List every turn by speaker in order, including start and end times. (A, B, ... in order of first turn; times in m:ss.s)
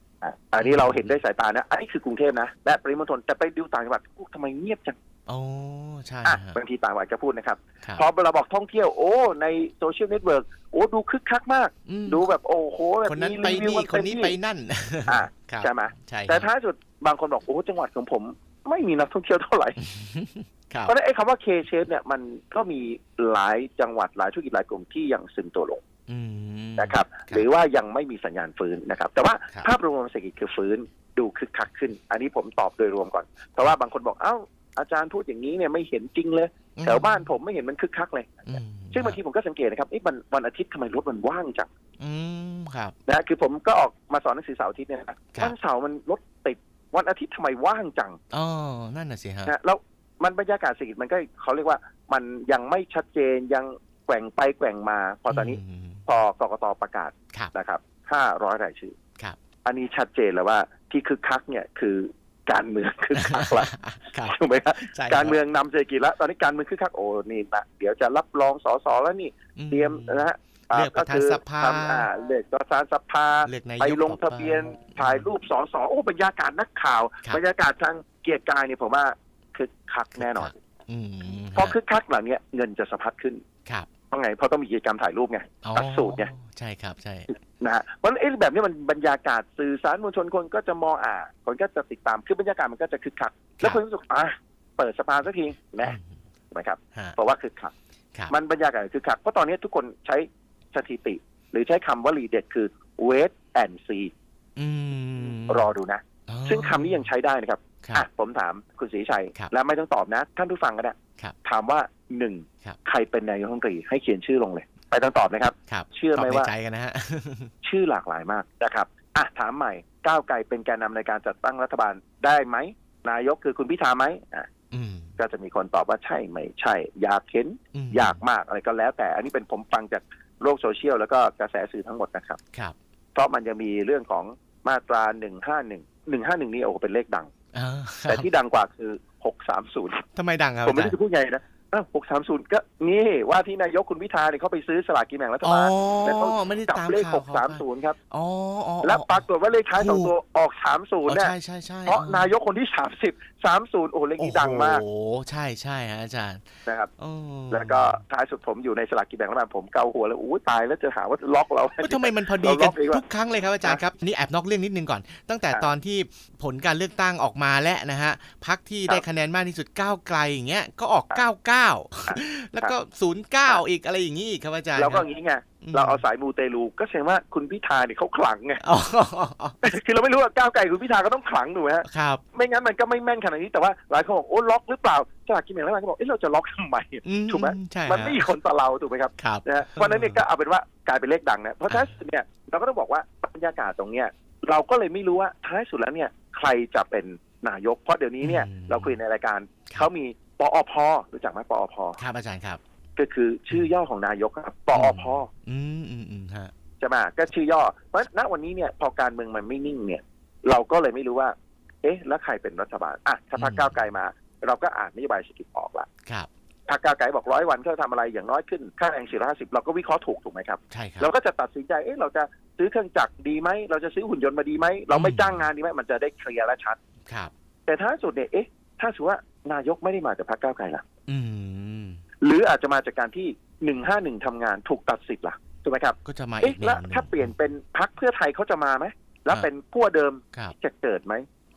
0:00.2-0:05.0 A
0:00.6-0:01.1 B
0:05.3-0:06.6 B
0:06.2-0:14.4 A
0:11.8-0:12.2 B
0:13.0-0:16.5 B
0:15.1-0:19.8 A
0:19.8-0:20.9 B
0:20.9-0:25.8 A
0:26.1-0:27.4 B
0:26.8-0:41.7 A
0:36.8-0:37.2 B
0:38.5-0:39.2 B
0:42.0-0:42.9 B
0:43.1-0:48.2 A
0:48.3-0:49.5 B
0:49.4-0:59.0 A
0:55.3-0:56.0 B
0:59.6-1:03.7 A
1:03.2-1:05.4 B
1:04.2-1:20.5 A
1:09.6-1:12.1 B
1:13.4-1:15.2 B
1:20.2-1:21.8 B
1:21.5-1:23.4 A
1:24.1-1:26.3 A
1:25.6-1:27.3 B
1:27.3-1:36.0 A
1:35.8-1:36.2 B
1:36.5-1:37.7 A
1:38.3-1:44.1 A
1:44.6-1:45.7 B
1:45.5-1:56.5 A
1:46.3-1:47.0 B
1:55.7-1:57.5 B
1:57.6-2:04.5 A
2:04.7-2:05.1 B
2:05.2-2:12.4 A
2:07.7-2:08.2 B
2:13.1-2:17.3 A
2:17.5-2:18.3 B
2:18.0-2:20.0 A
2:20.1-2:20.9 B
2:20.6-2:28.0 A
2:25.4-2:29.2 B
2:28.8-2:31.3 A
2:29.7-2:30.1 B
2:31.0-2:32.3 B
2:31.9-2:34.8 A
2:34.2-2:38.0 B
2:36.6-2:36.9 A
2:37.5-2:43.0 A
2:41.8-2:55.0 B
2:52.1-2:52.7 A
2:54.8-2:58.6 A
2:55.6-2:56.0 B
2:58.6-2:59.7 B
2:59.6-3:22.0 A
3:01.8-3:02.2 B
3:07.0-3:08.2 B
3:09.2-3:10.2 B
3:11.7-3:11.9 B
3:18.2-3:19.0 B
3:22.0-3:22.6 B
3:23.0-3:25.3 A
3:24.7-3:26.5 B
3:26.8-3:35.9 A
3:33.4-3:33.7 B
3:36.7-3:46.8 A
3:40.7-3:41.1 B
3:44.9-3:45.4 B
3:47.1-3:47.3 B
3:47.6-3:50.8 A
3:51.1-3:52.0 B
3:52.2-4:01.2 A
3:56.0-3:57.3 B